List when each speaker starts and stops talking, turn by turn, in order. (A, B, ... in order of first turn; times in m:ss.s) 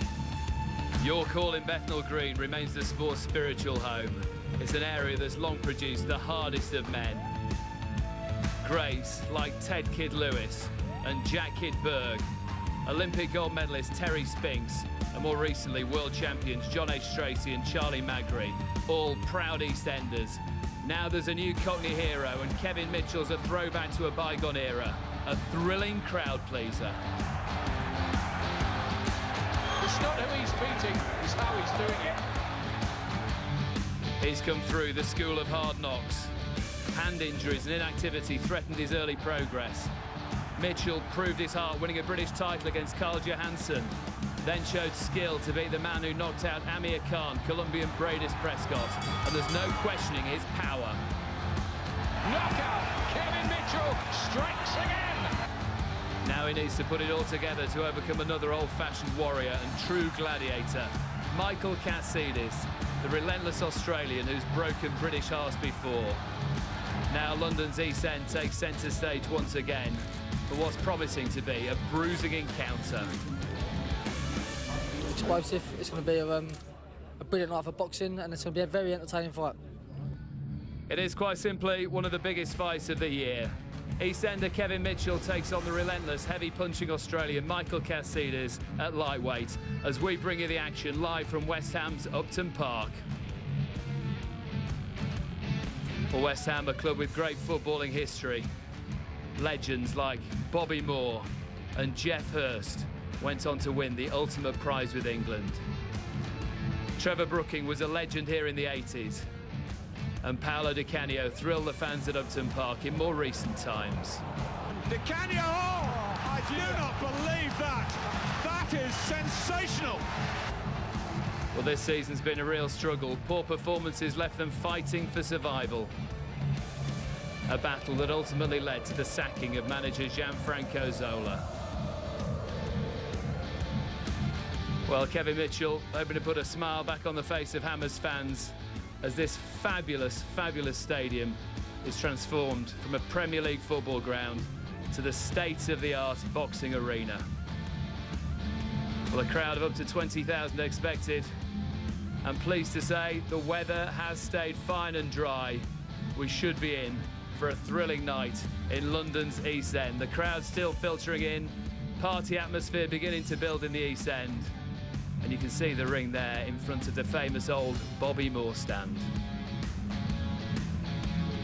0:01.0-0:07.3 A
0:08.6-0:12.2 A
0:12.8-0:27.0 A
0:29.8-0:32.2 B
0:34.2-0:36.3 A
0:36.9-0:39.9 A
0:40.6-0:51.0 A
0:52.2-0:55.3 B
0:56.2-1:06.2 A
1:07.1-1:13.1 A
1:15.1-1:16.6 C
1:17.2-1:19.6 C
1:20.9-1:33.0 A
1:36.1-1:38.5 A
1:39.4-1:45.6 A
1:47.0-1:49.2 A
1:50.2-1:54.2 A
1:54.8-2:00.0 D
2:01.5-2:05.9 A
2:07.5-2:11.4 A
2:14.8-2:27.2 A
2:29.1-2:31.3 A
2:32.2-2:44.5 A
2:45.2-2:49.1 A